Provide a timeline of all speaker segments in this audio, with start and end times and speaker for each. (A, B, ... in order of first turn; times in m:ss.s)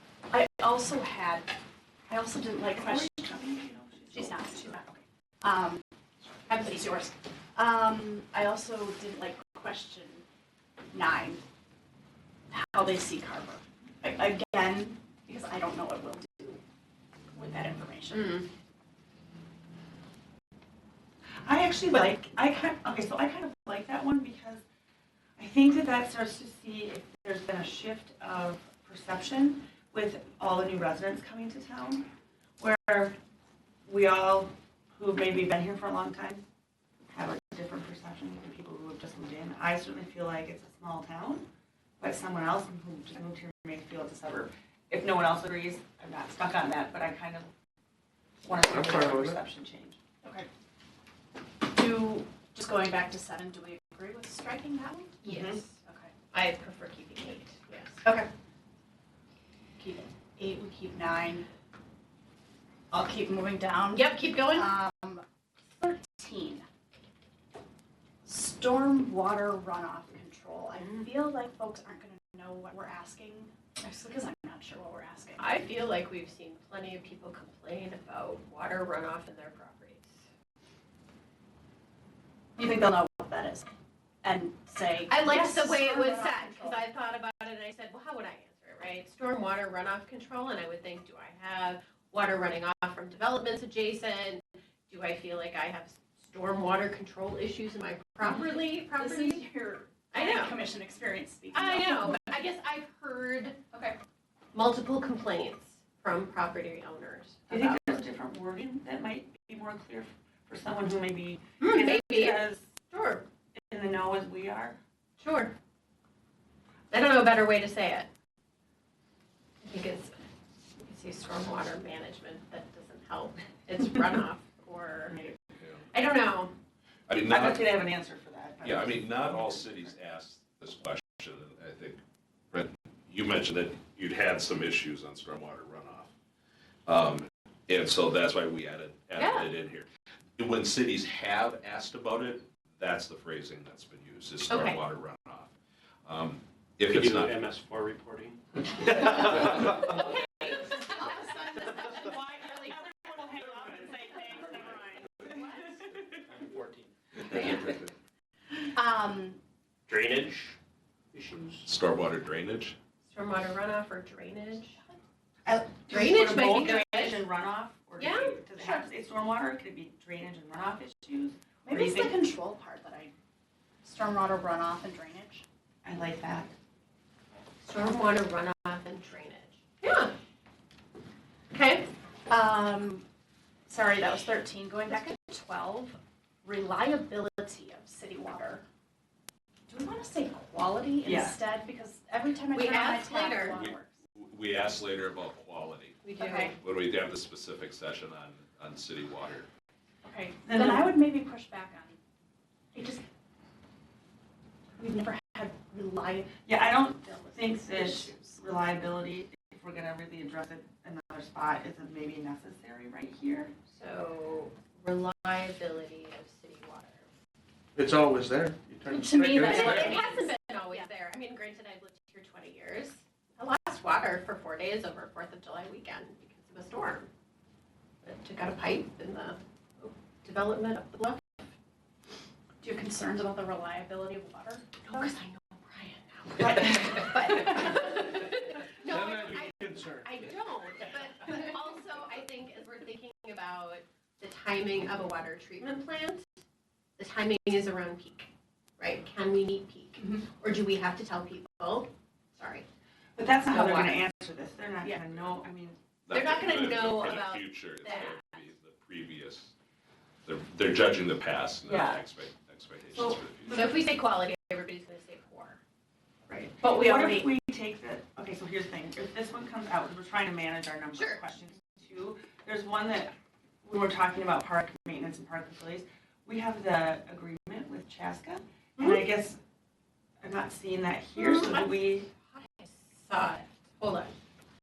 0:00.3-0:01.5 A
0:02.1-0:03.2 A
0:02.8-0:04.6 B
0:04.1-0:05.8 A
0:06.5-0:06.9 C
0:06.5-0:10.2 A
0:10.9-0:11.4 A
0:12.5-0:16.6 A
0:17.3-0:18.5 A
0:18.1-0:18.5 C
0:21.4-0:24.6 B
0:25.4-0:32.1 B
0:32.6-0:33.2 B
0:33.9-0:36.4 B
0:37.1-0:41.5 B
0:42.0-0:47.5 B
0:48.4-0:50.0 B
0:48.6-0:49.4 D
0:50.2-0:50.5 A
0:51.6-0:55.3 A
0:55.2-0:55.7 C
0:55.2-0:55.6 B
0:55.8-0:56.1 A
0:56.3-0:58.3 C
0:59.8-1:01.5 A
1:02.9-1:05.2 A
1:03.9-1:04.7 C
1:05.8-1:06.6 A
1:08.2-1:15.6 A
1:10.8-1:11.0 C
1:15.4-1:20.2 C
1:22.6-1:23.7 A
1:24.2-1:26.8 A
1:25.1-1:39.5 C
1:38.9-1:42.4 A
1:40.1-1:40.6 C
1:41.5-1:43.6 C
1:44.5-1:48.0 C
1:47.5-1:52.6 B
1:51.6-1:53.3 C
1:53.5-1:54.8 B
1:55.2-1:55.5 C
1:56.9-1:58.1 C
1:59.6-2:00.1 C
2:00.8-2:05.3 C
2:05.9-2:06.5 C
2:07.1-2:07.7 E
2:07.3-2:09.7 B
2:08.6-2:12.0 E
2:12.5-2:16.1 E
2:16.9-2:19.9 E
2:19.2-2:19.5 C
2:20.4-2:25.5 E
2:24.5-2:24.8 C
2:26.0-2:27.4 E
2:26.9-2:30.0 F
2:30.5-2:32.7 A
2:31.8-2:35.7 B
2:36.3-2:37.7 F
2:38.7-2:39.4 A
2:39.9-2:40.6 F
2:41.1-2:41.7 F
2:41.7-2:42.8 E
2:43.1-2:44.8 C
2:45.4-2:52.2 B
2:45.9-2:47.2 C
2:48.0-2:48.9 C
2:51.6-2:53.1 A
2:53.8-2:55.4 A
2:55.8-2:56.5 B
2:57.6-3:00.1 C
3:01.5-3:01.9 C
3:02.3-3:03.0 A
3:03.7-3:08.6 A
3:09.7-3:13.9 A
3:11.0-3:11.4 B
3:12.5-3:13.6 C
3:13.5-3:16.0 E
3:16.0-3:16.6 C
3:16.2-3:16.5 A
3:16.6-3:19.5 E
3:20.0-3:22.0 A
3:20.4-3:21.0 B
3:22.7-3:23.0 A
3:24.8-3:26.3 A
3:26.5-3:33.5 B
3:27.1-3:28.4 A
3:33.7-3:37.1 C
3:37.8-3:40.0 D
3:38.9-3:40.8 A
3:39.4-3:47.1 C
3:48.0-3:51.5 C
3:52.6-3:55.1 A
3:54.8-4:06.2 C
3:56.4-3:57.0 B
4:07.0-4:12.7 C
4:13.2-4:15.8 B
4:13.5-4:14.0 C
4:16.1-4:19.5 E
4:16.1-4:18.2 C
4:20.2-4:23.6 E
4:21.6-4:22.0 B
4:23.0-4:23.8 B
4:23.5-4:25.6 C
4:26.3-4:39.4 B
4:26.6-4:27.3 A
4:30.9-4:31.2 C
4:40.2-4:42.1 B
4:41.2-4:44.1 C